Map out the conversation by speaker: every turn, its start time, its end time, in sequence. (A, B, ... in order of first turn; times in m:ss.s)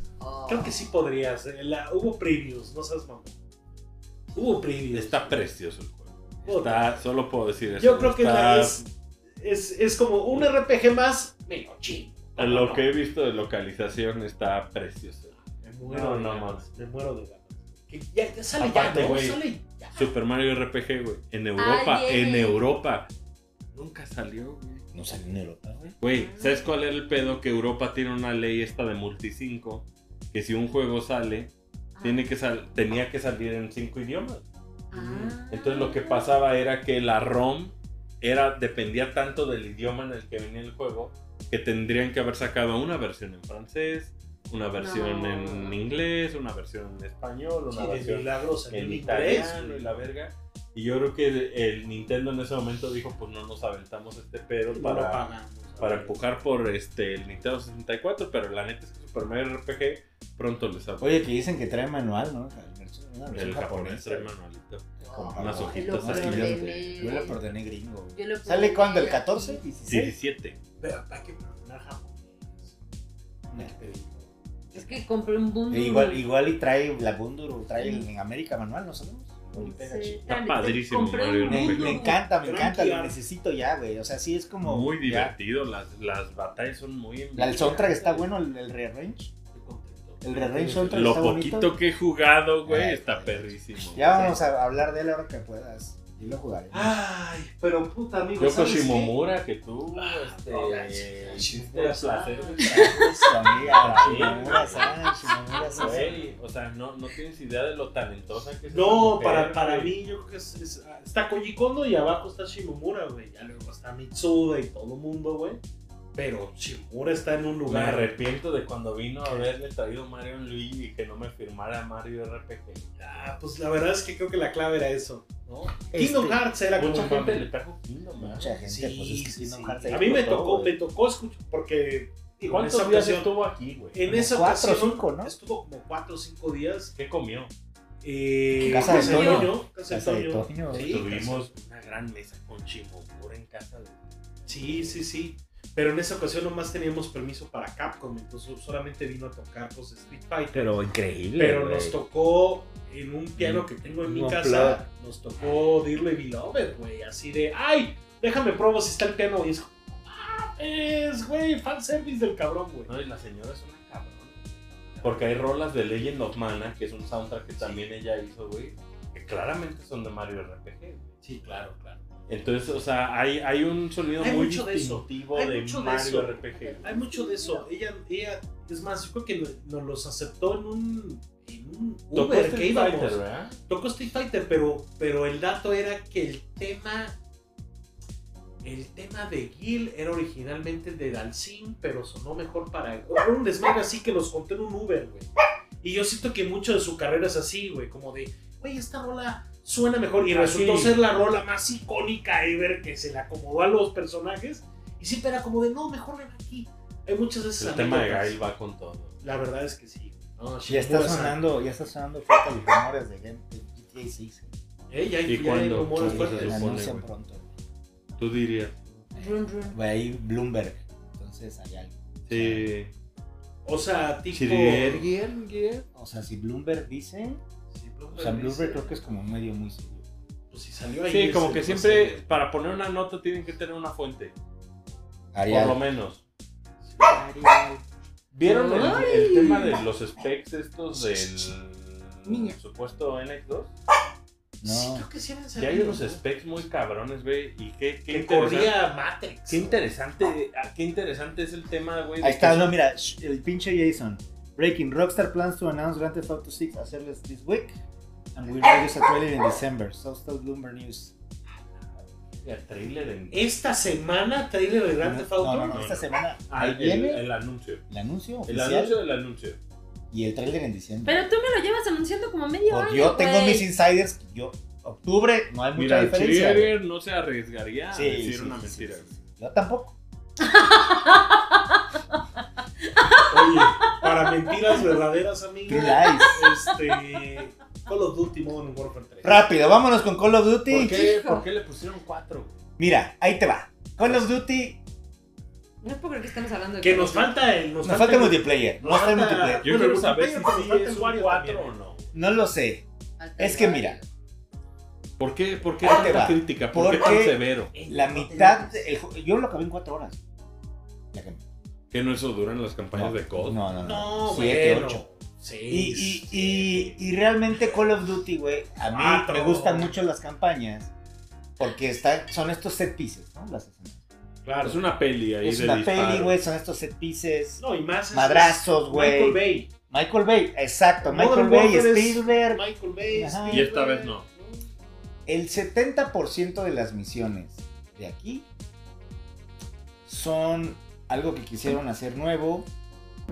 0:00.2-0:00.8 A
0:00.5-0:03.3 B
0:04.3-0:05.4 B
0:04.9-0:08.8 C
0:06.4-0:07.0 B
0:07.7-0:08.9 B
0:09.4-0:12.9 B
0:12.4-0:16.6 C
0:15.5-0:20.1 B
0:18.6-0:19.4 C
0:19.9-0:23.1 C
0:21.6-0:22.6 A
0:23.7-0:24.8 C
0:24.9-0:26.0 D
0:26.0-0:55.2 C
0:26.1-0:26.7 A
0:34.9-0:36.4 A
0:44.8-0:45.8 A
0:47.7-0:50.0 B
0:54.7-0:56.2 B
0:55.8-1:01.2 C
1:01.0-1:04.3 D
1:03.3-1:07.2 C
1:05.0-1:10.1 D
1:05.1-1:07.4 A
1:08.1-1:09.6 A
1:09.9-1:10.6 C
1:10.8-1:12.7 B
1:13.5-1:13.8 D
1:13.5-1:14.3 B
1:14.7-1:16.2 A
1:15.7-1:20.4 D
1:17.8-1:18.1 A
1:19.6-1:22.2 A
1:20.3-1:22.1 C
1:21.5-1:25.3 D
1:22.4-1:23.2 B
1:24.6-1:28.2 C
1:27.4-1:29.3 D
1:29.5-1:31.2 B
1:30.2-1:31.7 D
1:30.9-1:34.4 C
1:32.6-1:37.0 D
1:36.7-1:39.2 B
1:38.4-1:45.0 C
1:39.9-1:44.5 B
1:42.6-1:42.9 A
1:43.2-1:46.2 D
1:44.5-1:46.0 A
1:45.5-1:46.3 B
1:45.8-1:50.0 C
1:48.7-1:55.6 B
1:56.1-1:58.1 B
1:57.7-2:03.3 C
1:59.2-1:59.5 B
2:03.0-2:07.4 B
2:05.9-2:06.4 D
2:06.8-2:08.6 C
2:08.2-2:10.5 D
2:08.6-2:13.3 B
2:09.9-2:10.7 C
2:12.5-2:14.0 C
2:13.9-2:16.9 B
2:14.1-2:15.3 D
2:17.0-2:17.5 C
2:18.0-2:21.5 B
2:18.6-2:19.5 A
2:18.6-2:20.9 D
2:20.7-2:25.0 C
2:24.4-2:30.8 B
2:30.5-2:32.0 D
2:31.4-2:42.9 B
2:33.4-2:34.8 D
2:42.9-2:51.6 C
2:44.9-2:45.3 B
2:47.6-2:47.9 B
2:51.2-2:52.0 B
2:52.3-2:57.0 C
2:54.2-3:07.2 B
2:56.5-2:57.7 A
3:02.1-3:03.6 C
3:08.6-3:15.3 B
3:15.8-3:28.4 B
3:20.3-3:21.1 C
3:27.6-3:29.1 C
3:29.2-3:31.4 B
3:30.7-3:34.5 D
3:34.9-3:36.7 B
3:35.2-3:37.0 C
3:36.0-3:37.5 D
3:38.2-3:38.8 C
3:39.1-3:39.8 A
3:39.1-3:42.7 D
3:42.3-3:42.9 C
3:43.6-3:45.0 B
3:44.3-3:45.8 C
3:45.9-3:47.4 D
3:47.7-3:48.8 B
3:48.1-3:50.0 D
3:50.5-3:52.2 B
3:51.1-3:54.3 C
3:55.3-3:55.8 D
3:55.5-3:56.2 C
3:56.8-3:57.2 B
3:57.2-3:57.7 D
3:58.3-4:03.7 C
3:58.4-3:59.8 A
4:02.2-4:02.5 A
4:04.6-4:05.0 D
4:04.6-4:06.2 B
4:05.6-4:08.8 C
4:08.1-4:09.8 B
4:09.5-4:12.7 C
4:12.2-4:17.7 D
4:18.3-4:21.1 D
4:22.4-4:23.4 C
4:23.3-4:26.0 B
4:25.0-4:27.2 D
4:25.7-4:27.8 C
4:27.9-4:28.9 D
4:28.4-4:29.6 C
4:30.1-4:31.2 D
4:31.0-4:33.7 A
4:32.7-4:36.7 D
4:35.7-4:39.1 C
4:37.9-4:40.0 D
4:40.4-4:42.0 A
4:42.8-4:44.9 A
4:43.3-4:49.4 B
4:45.7-4:46.4 D
4:45.8-4:46.8 A
4:49.2-4:51.0 D
4:50.7-4:52.5 C
4:50.7-4:51.4 A
4:52.8-4:54.8 D
4:55.8-4:57.5 A
4:56.8-5:01.7 B
4:57.8-4:59.7 D
4:59.6-5:02.1 C
5:02.1-5:02.8 D
5:03.2-5:04.0 A
5:03.4-5:04.0 D
5:05.2-5:07.7 C
5:05.8-5:10.2 D
5:07.7-5:08.9 B
5:11.1-5:11.4 D
5:11.9-5:13.6 C
5:12.9-5:15.0 D
5:13.8-5:16.9 B
5:15.7-5:20.9 D
5:18.9-5:19.9 B
5:21.6-5:24.0 D
5:24.4-5:24.8 B
5:24.6-5:26.4 C
5:25.4-5:27.6 D
5:27.6-5:29.7 B
5:28.1-5:33.7 D
5:31.0-5:34.6 B
5:33.5-5:34.2 C
5:35.3-5:38.5 D
5:40.0-5:42.7 D